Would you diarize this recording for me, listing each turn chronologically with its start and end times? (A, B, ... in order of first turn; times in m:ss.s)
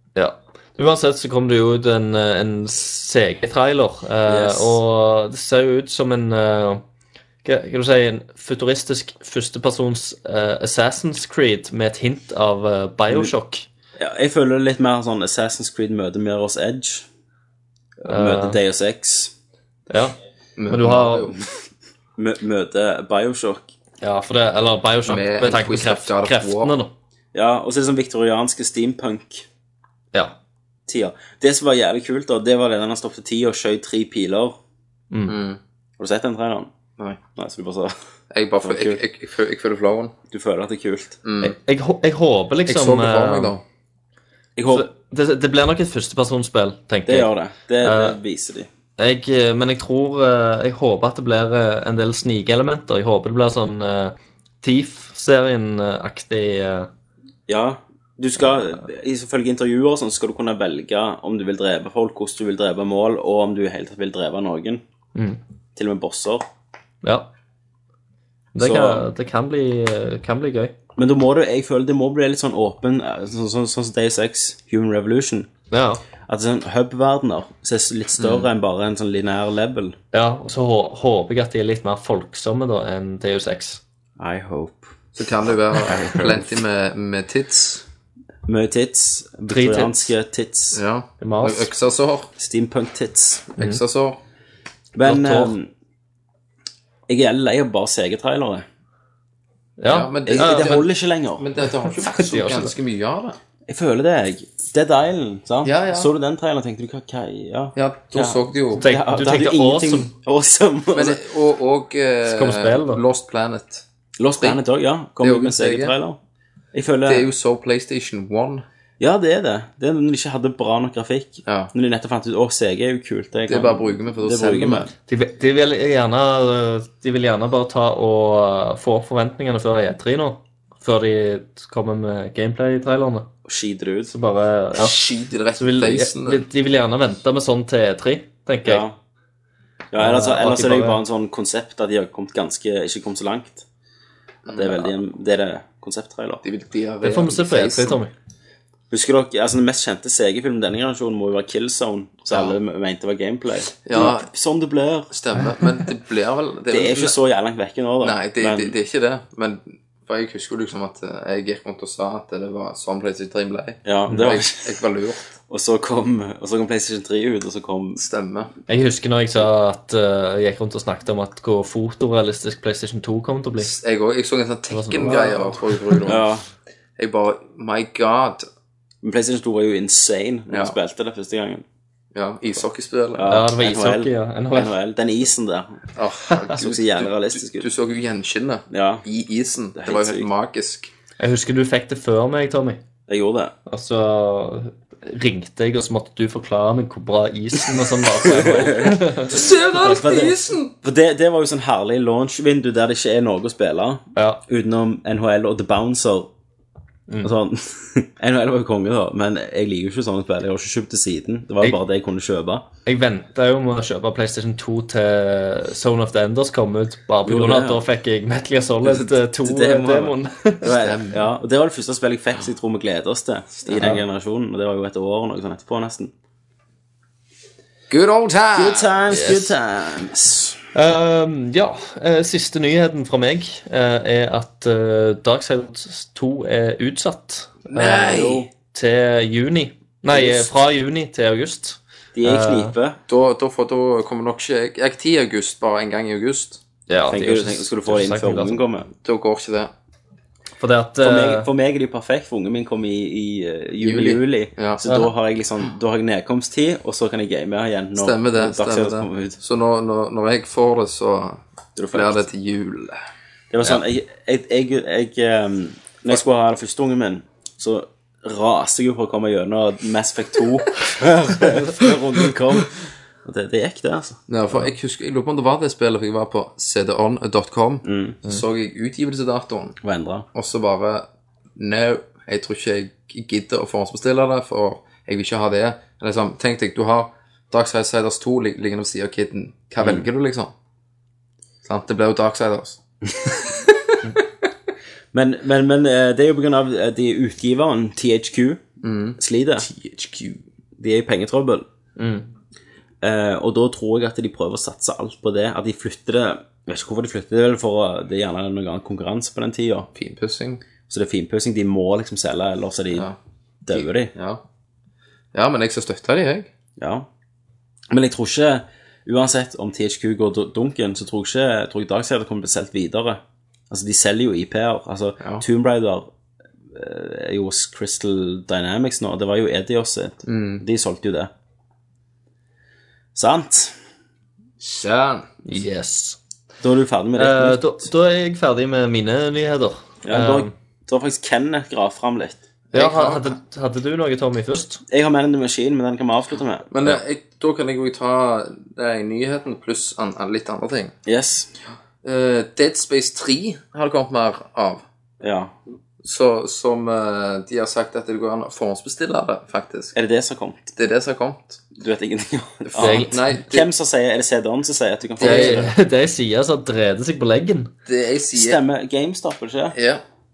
0:00.2-0:06.8 A
0:04.3-0:04.8 B
0:07.4-0:13.7 A
0:14.0-0:17.1 B
0:18.0-0:19.3 B
0:18.0-0:18.6 A
0:19.9-0:20.2 A
0:20.6-0:21.4 C
0:20.7-0:21.4 A
0:22.2-0:23.7 B
0:24.0-0:26.9 A
0:25.1-0:26.7 C
0:27.3-0:29.5 B
0:30.9-0:34.6 B
0:35.1-0:35.4 A
0:35.3-0:35.6 C
0:36.0-0:36.7 B
0:37.4-0:38.0 B
0:38.3-0:40.1 C
0:38.6-0:39.0 B
0:40.3-0:41.2 B
0:41.2-0:41.6 C
0:41.4-0:43.5 A
0:42.7-0:43.6 C
0:44.6-0:44.9 B
0:44.7-0:47.3 A
0:47.1-0:48.7 B
0:47.8-0:48.2 A
0:49.0-0:56.9 A
0:57.5-1:04.8 B
1:05.8-1:06.5 B
1:07.0-1:07.3 A
1:08.6-1:10.8 A
1:08.6-1:09.1 B
1:11.0-1:15.5 B
1:15.7-1:16.0 A
1:16.3-1:20.0 B
1:18.2-1:18.5 C
1:20.1-1:23.8 A
1:24.2-1:24.9 B
1:25.2-1:27.8 C
1:25.8-1:26.5 B
1:28.5-1:30.8 B
1:29.5-1:30.1 A
1:30.7-1:32.3 C
1:31.2-1:31.7 A
1:32.4-1:33.5 B
1:33.6-1:34.2 C
1:35.0-1:35.7 B
1:35.0-1:35.6 A
1:37.1-1:38.6 B
1:39.8-1:40.8 A
1:39.9-1:43.4 C
1:40.3-1:41.4 B
1:41.9-1:42.7 A
1:43.7-1:51.2 B
1:45.6-1:46.1 C
1:47.8-1:48.8 C
1:48.8-1:50.1 A
1:50.9-1:53.8 C
1:52.2-1:53.0 A
1:54.2-1:56.2 B
1:55.2-1:55.9 C
1:56.7-1:57.3 B
1:57.1-1:58.6 C
1:59.0-2:04.9 B
2:01.4-2:01.7 C
2:03.5-2:04.9 C
2:05.1-2:13.3 A
2:13.5-2:14.1 B
2:14.1-2:15.0 A
2:14.8-2:16.4 C
2:15.6-2:18.8 A
2:18.6-2:19.0 B
2:19.9-2:23.6 B
2:20.0-2:21.0 A
2:24.5-2:24.9 C
2:24.5-2:26.4 B
2:26.4-2:28.0 C
2:27.0-2:28.1 A
2:28.9-2:35.1 B
2:32.3-2:32.6 C
2:33.9-2:34.3 C
2:35.1-2:37.2 C
2:36.7-2:38.8 B
2:38.0-2:45.2 C
2:43.8-2:44.6 B
2:45.5-2:48.0 B
2:48.0-2:48.5 C
2:48.7-2:53.7 A
2:53.6-2:56.2 C
2:54.7-2:56.1 A
2:56.1-2:56.4 B
2:57.0-2:58.5 C
2:59.0-3:01.6 B
3:00.5-3:00.8 C
3:02.2-3:03.3 C
3:03.2-3:05.8 B
3:03.3-3:04.7 A
3:06.0-3:10.9 C
3:06.5-3:07.7 B
3:08.7-3:09.0 B
3:09.8-3:10.3 B
3:11.2-3:12.8 A
3:13.1-3:13.5 B
3:13.7-3:19.4 A
3:18.2-3:19.0 B
3:19.3-3:20.7 C
3:19.8-3:26.3 B
3:24.2-3:24.4 A
3:27.2-3:32.7 B
3:32.9-3:40.7 A
3:37.2-3:37.8 B
3:38.9-3:46.1 B
3:40.7-3:41.2 C
3:43.7-3:44.0 C
3:47.9-3:48.9 C
3:48.5-3:50.6 B
3:49.1-3:49.6 A
3:50.7-4:02.7 A
3:57.7-3:58.5 C
3:58.0-3:58.5 B
4:02.2-4:03.0 B
4:03.1-4:06.6 C
4:06.9-4:08.6 A
4:07.1-4:08.9 B
4:09.0-4:09.7 C
4:10.6-4:11.5 A
4:11.0-4:19.4 B
4:13.8-4:14.8 C
4:18.0-4:21.4 C
4:21.8-4:22.2 B
4:21.9-4:23.0 C
4:23.5-4:34.2 B
4:34.3-4:39.8 C
4:37.8-4:38.2 B
4:39.8-4:40.2 B
4:40.3-4:50.5 C
4:49.8-4:50.1 B
4:51.6-4:54.2 C
4:55.1-4:58.6 B
4:58.8-5:00.4 C
4:59.2-4:59.7 B
5:00.8-5:01.7 B
5:02.0-5:02.2 C
5:03.0-5:09.9 B
5:10.0-5:10.6 C
5:10.9-5:13.0 B
5:13.7-5:14.1 B
5:13.7-5:14.4 C
5:15.3-5:16.5 C
5:16.8-5:17.1 B
5:17.9-5:26.1 B
5:26.7-5:31.3 B
5:30.3-5:30.6 C
5:33.2-5:33.8 B
5:34.6-5:35.3 C
5:35.4-5:36.2 A
5:36.6-5:37.8 B
5:37.2-5:40.5 A
5:40.0-5:42.4 B
5:42.7-5:43.3 C
5:42.7-5:44.8 A
5:44.9-5:47.0 B
5:46.7-5:50.9 C
5:51.1-5:51.5 B
5:52.0-5:54.8 C
5:55.2-5:55.6 B
5:56.0-5:59.9 C
5:59.9-6:00.7 B
6:00.8-6:01.6 C
6:01.8-6:05.7 B
6:02.7-6:03.7 C
6:02.8-6:03.2 A
6:05.2-6:05.7 C
6:05.2-6:07.7 A
6:07.9-6:08.6 C
6:08.3-6:09.8 B
6:09.7-6:10.0 C